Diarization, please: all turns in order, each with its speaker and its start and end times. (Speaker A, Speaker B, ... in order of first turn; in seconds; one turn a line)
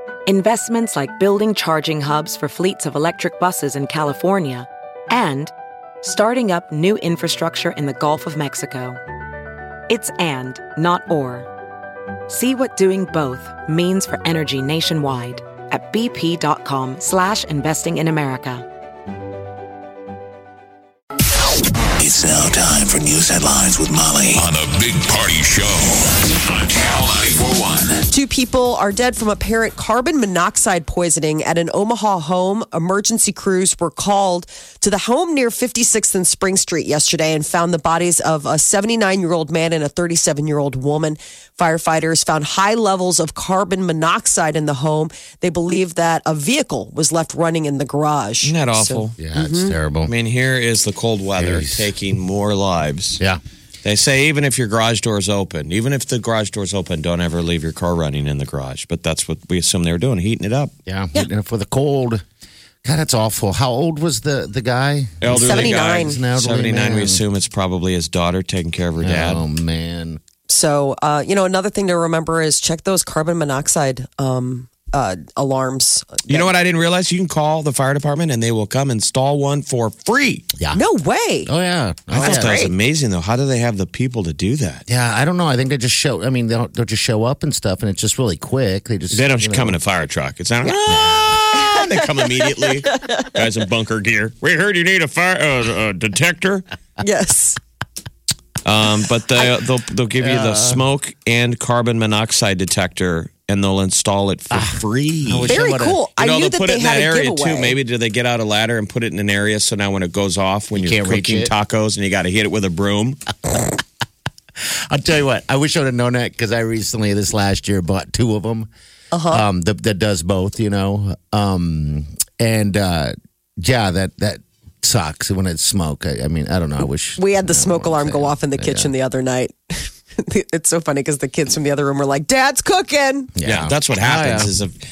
Speaker A: 0.3-9.0
Speaker A: 9.9-11.5
Speaker A: 12.3-18.7
Speaker B: 22.0-28.0
Speaker C: 28.1-49.8
Speaker D: 48.4-49.2
Speaker E: 49.2-50.1
Speaker D: 50.1-53.2
Speaker E: 51.4-51.9
Speaker D: 53.8-60.7
Speaker E: 60.9-62.2
Speaker E: 62.8-67.2
Speaker D: 65.2-69.4
Speaker C: 65.3-66.2
Speaker E: 69.0-70.2
Speaker C: 70.5-76.5
Speaker D: 76.3-80.5
Speaker C: 80.7-81.5
Speaker E: 81.5-82.6
Speaker D: 82.1-84.8
Speaker C: 82.2-82.7
Speaker E: 84.9-89.8
Speaker D: 89.1-96.7
Speaker E: 90.9-91.7
Speaker C: 91.5-93.3
Speaker C: 97.0-97.6
Speaker D: 98.6-105.6
Speaker E: 100.2-100.8
Speaker E: 104.5-106.0
Speaker C: 105.5-107.8
Speaker D: 106.2-113.2
Speaker E: 110.7-111.5
Speaker E: 113.5-113.8
Speaker E: 114.7-118.7
Speaker C: 119.1-119.4
Speaker E: 119.3-128.9
Speaker C: 127.2-133.3
Speaker E: 133.4-134.5
Speaker D: 133.4-134.7